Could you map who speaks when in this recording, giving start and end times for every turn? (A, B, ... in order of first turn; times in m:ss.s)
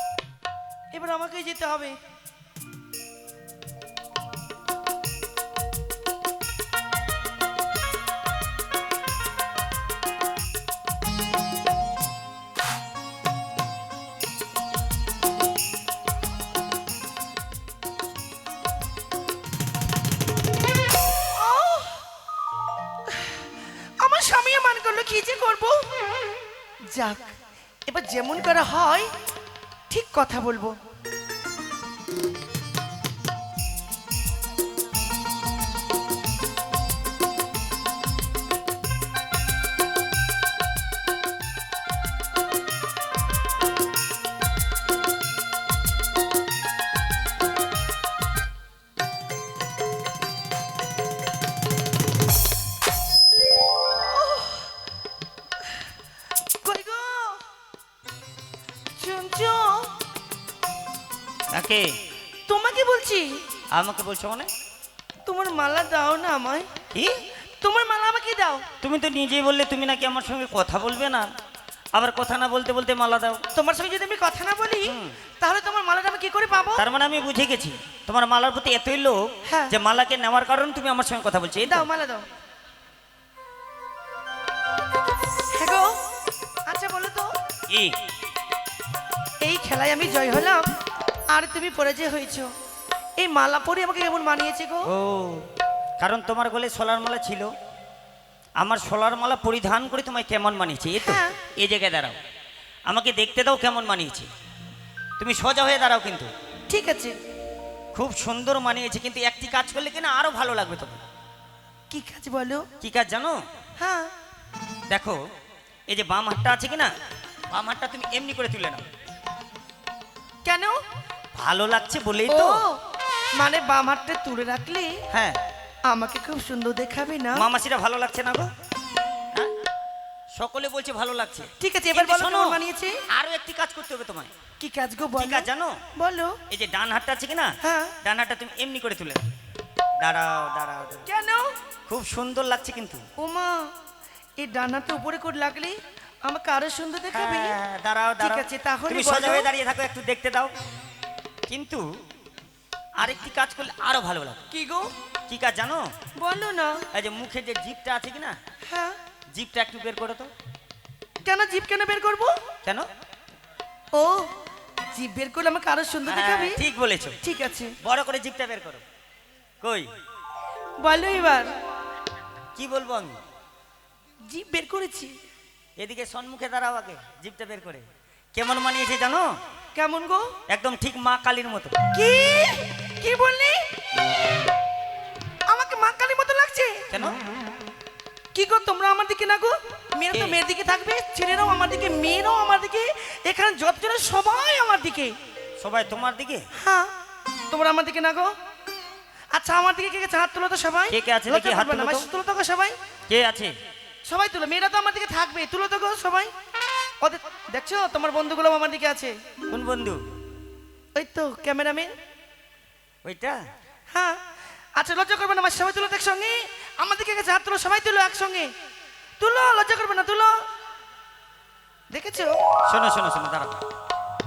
0:00.9-0:02.0 A
0:21.3-0:22.0 A
0:23.1-0:25.9 A
0:26.9-0:27.4 A
0:27.9-0:29.1 A
0:29.9-0:30.8 A
0:53.9-0:54.7 A
0:56.6-0:57.4 A
0:59.0-0:59.9 A
1:01.5-1:01.9 B
1:02.5-1:03.3 A
1:03.7-1:04.5 B
1:05.3-1:06.7 A
1:07.6-1:08.6 A
1:08.8-1:11.3 B
1:12.0-1:13.4 B
1:13.5-1:16.8 A
1:14.9-1:15.2 B
1:16.8-1:21.9 B
1:19.5-1:19.8 A
1:21.7-1:22.2 A
1:25.5-1:26.0 A
1:26.7-1:27.3 A
1:27.7-1:28.0 B
1:29.4-1:30.7 A
1:31.3-1:32.5 A
1:33.2-1:34.9 A
1:34.9-1:35.5 B
1:36.0-1:37.5 B
1:38.6-1:42.2 B
1:41.0-1:41.4 A
1:42.9-1:44.3 B
1:45.2-1:46.3 B
1:46.7-1:47.1 A
1:47.9-1:51.0 B
1:51.9-1:52.7 A
1:52.8-1:53.4 B
1:53.8-1:54.1 A
1:54.9-1:55.2 B
1:55.9-1:56.9 B
1:57.5-1:58.9 B
2:00.4-2:00.8 A
2:01.4-2:02.6 B
2:02.3-2:02.8 A
2:03.4-2:05.0 A
2:05.1-2:05.4 B
2:05.9-2:07.4 A
2:07.4-2:08.5 B
2:10.4-2:12.6 B
2:11.6-2:13.0 A
2:13.1-2:14.3 B
2:14.6-2:16.4 A
2:15.2-2:15.8 B
2:16.5-2:19.3 B
2:17.6-2:18.0 A
2:20.0-2:21.0 B
2:21.1-2:21.5 A
2:21.9-2:23.1 B
2:23.2-2:23.7 A
2:24.4-2:27.6 A
2:27.1-2:30.5 B
2:28.2-2:29.5 A
2:31.5-2:31.9 B
2:33.0-2:34.4 B
2:34.5-2:34.9 A
2:35.3-2:35.9 B
2:36.2-2:36.8 A
2:36.9-2:38.4 B
2:38.7-2:39.0 A
2:39.3-2:40.3 B
2:41.3-2:42.4 A
2:44.0-2:44.3 A
2:44.9-2:46.6 A
2:46.1-2:47.2 B
2:47.2-2:47.8 A
2:47.8-2:48.8 B
2:49.6-2:49.9 B
2:50.8-2:51.5 A
2:52.6-2:53.2 B
2:54.3-2:55.1 A
2:55.8-2:59.3 B
2:59.8-3:00.3 A
3:00.5-3:01.8 B
3:01.9-3:03.6 A
3:05.5-3:06.8 A
3:06.9-3:07.2 B
3:08.4-3:15.2 A
3:10.1-3:10.4 B
3:15.6-3:16.5 B
3:16.5-3:16.9 A
3:17.5-3:18.3 A
3:19.3-3:22.8 A
3:20.9-3:22.1 B
3:23.1-3:23.5 B
3:24.1-3:26.3 A
3:27.0-3:29.2 A
3:29.5-3:30.0 B
3:31.0-3:31.9 A
3:33.0-3:33.4 B
3:33.9-3:34.2 A
3:34.8-3:38.5 A
3:39.2-3:40.4 A
3:41.9-3:42.4 A
3:42.7-3:43.6 B